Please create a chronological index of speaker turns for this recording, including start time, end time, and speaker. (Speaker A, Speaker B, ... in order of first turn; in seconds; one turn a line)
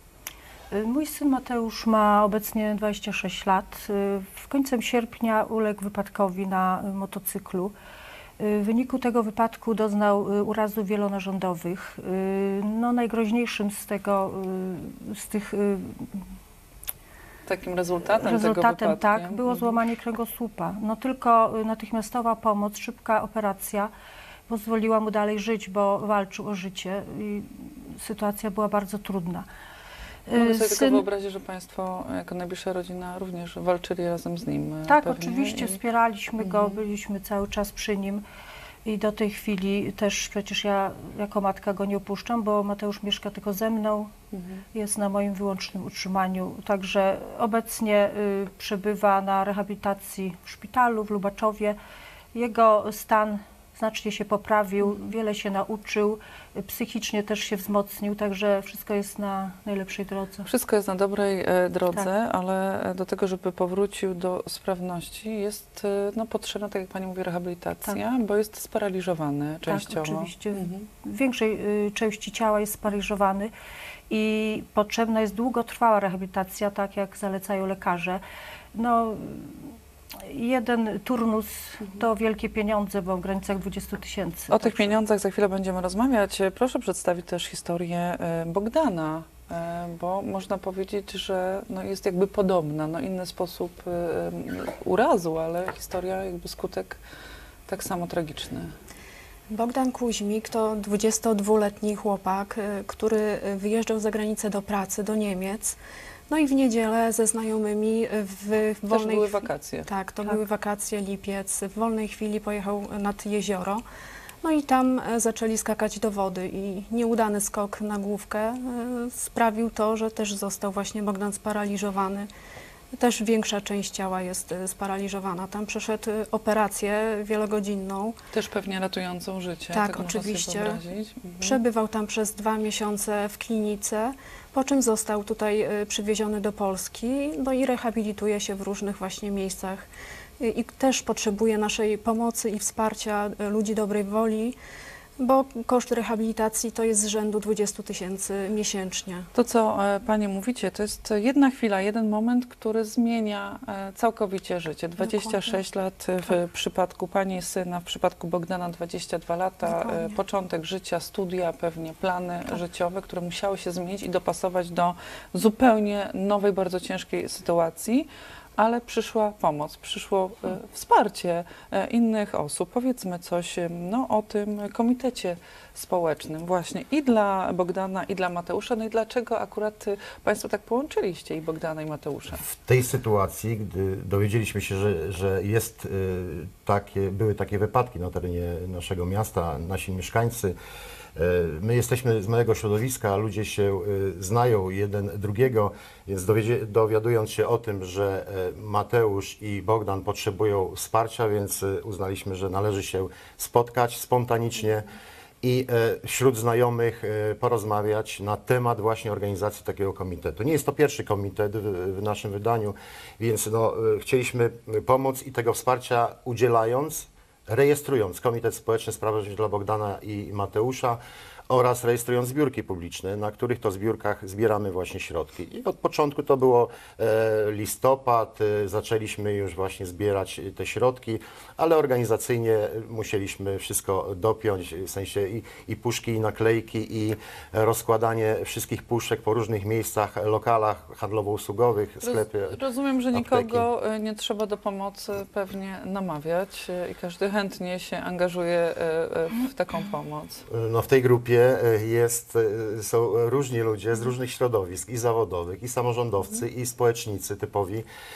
Speaker A: 0.7-7.7
Speaker A: 8.4-16.2
Speaker B: 17.4-19.8
Speaker A: 18.1-23.9
Speaker A: 24.5-29.5
Speaker A: 30.3-31.0
Speaker B: 30.4-35.8
Speaker A: 34.9-38.2
Speaker B: 36.4-36.8
Speaker A: 38.8-44.1
Speaker B: 44.3-44.6
Speaker A: 44.7-51.8
Speaker A: 52.3-60.5
Speaker B: 60.5-70.9
Speaker A: 69.7-73.5
Speaker A: 74.1-78.2
Speaker A: 78.7-79.7
Speaker A: 80.2-85.0
Speaker B: 84.5-97.0
Speaker B: 97.7-98.7
Speaker C: 99.5-105.8
Speaker C: 106.3-113.8
Speaker B: 108.9-110.3
Speaker C: 114.4-122.3
Speaker C: 122.9-128.2
Speaker B: 128.3-131.6
Speaker C: 129.7-130.8
Speaker C: 131.4-139.9
Speaker C: 140.4-144.6
Speaker C: 145.2-149.3
Speaker B: 149.3-182.4
Speaker C: 155.0-155.6
Speaker C: 159.6-160.1
Speaker D: 182.4-190.5
Speaker D: 191.2-204.9
Speaker D: 205.4-243.7
Speaker B: 242.0-250.4
Speaker D: 250.5-257.9